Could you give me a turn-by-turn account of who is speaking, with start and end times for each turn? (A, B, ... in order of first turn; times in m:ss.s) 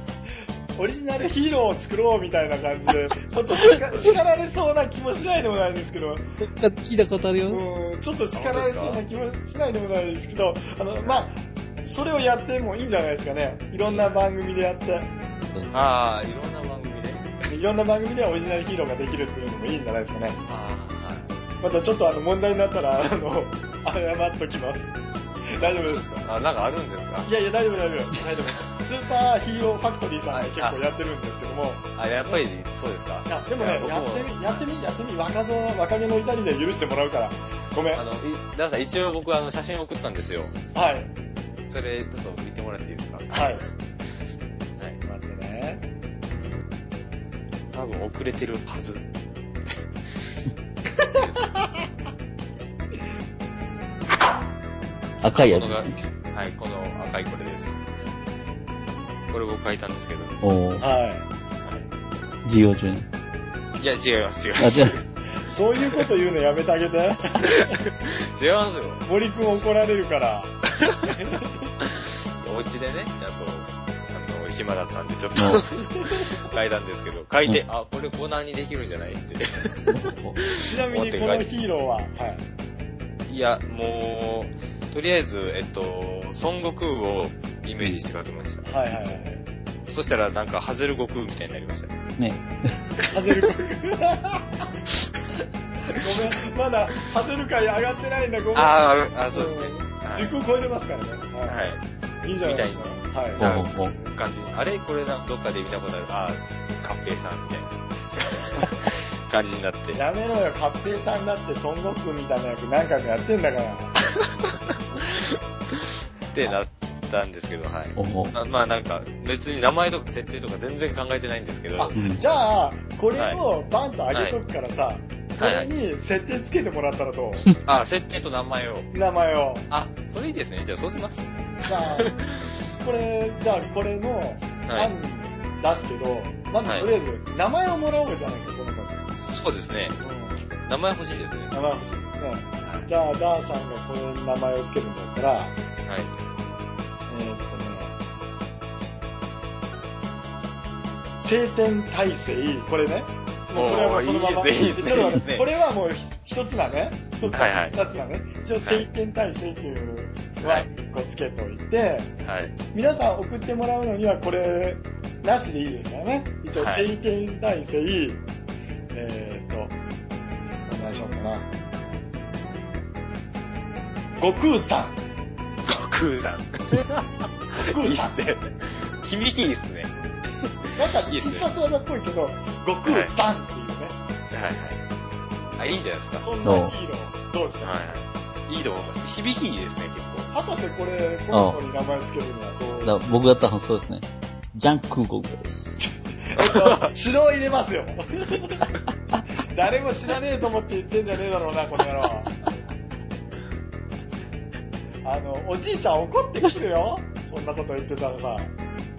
0:00.8-0:06.2 A
0:03.7-0:04.2 B
0:06.4-0:07.6 C
0:07.5-0:15.1 A
0:08.3-0:09.0 B
0:11.0-0:11.3 B
0:15.5-0:15.8 C
0:15.7-0:17.4 B
0:17.5-0:20.4 A
0:20.5-0:21.3 B
0:21.6-0:24.9 A
0:25.4-0:26.2 A
0:25.6-0:27.3 B
0:27.2-0:32.4 A
0:30.3-0:30.8 B
0:32.0-0:34.6 B
0:33.3-0:38.0 A
0:37.9-0:40.6 B
0:40.7-0:41.1 A
0:41.7-0:43.7 B
0:43.3-0:43.6 A
0:45.0-0:45.8 A
0:47.7-0:49.0 B
0:51.0-0:51.6 B
0:55.2-0:56.0 C
0:55.4-0:58.1 B
0:59.3-1:00.4 B
1:00.4-1:00.9 C
1:00.8-1:01.3 A
1:02.4-1:03.1 C
1:03.8-1:05.0 B
1:04.6-1:05.0 C
1:05.4-1:07.8 A
1:07.4-1:09.0 B
1:09.1-1:11.7 A
1:11.8-1:21.4 B
1:15.4-1:15.6 C
1:16.0-1:16.3 A
1:19.9-1:20.4 C
1:20.6-1:22.4 A
1:23.3-1:28.8 B
1:28.7-1:29.4 A
1:29.9-1:32.0 B
1:32.2-1:32.9 C
1:33.0-1:33.5 B
1:33.1-1:34.7 A
1:35.9-1:38.8 A
1:35.9-1:36.1 B
1:38.5-1:40.3 B
1:39.3-1:41.6 A
1:41.5-1:41.8 B
1:42.2-1:43.5 A
1:42.4-1:50.0 B
1:43.4-1:43.9 C
1:50.0-1:54.0 A
1:54.1-2:02.0 B
1:58.0-1:58.3 C
2:01.8-2:07.5 A
2:02.0-2:02.2 C
2:05.4-2:05.7 B
2:07.6-2:08.9 B
2:08.9-2:09.7 A
2:09.7-2:12.6 B
2:11.7-2:12.2 A
2:12.8-2:19.0 A
2:14.7-2:14.9 B
2:19.2-2:20.0 B
2:20.0-2:20.4 A
2:20.6-2:21.5 B
2:21.5-2:25.6 A
2:25.9-2:26.1 B
2:27.1-2:28.0 A
2:31.2-2:42.1 A
2:33.5-2:35.5 B
2:37.3-2:37.8 B
2:40.4-2:40.7 B
2:42.2-2:42.6 B
2:42.7-2:48.2 A
2:46.6-2:46.9 B
2:48.9-2:49.8 A
2:50.7-2:51.5 A
2:54.2-2:55.0 A
2:55.6-2:56.9 B
2:56.7-2:58.2 A
2:57.5-3:01.5 B
3:00.8-3:04.0 A
3:02.9-3:03.1 B
3:04.3-3:04.8 B
3:05.6-3:06.3 B
3:06.2-3:07.8 A
3:06.4-3:06.8 C
3:07.6-3:10.3 B
3:10.3-3:13.2 A
3:11.3-3:11.6 C
3:12.8-3:15.5 C
3:15.8-3:18.7 A
3:16.4-3:16.9 B
3:19.4-3:22.3 A
3:25.0-3:28.5 A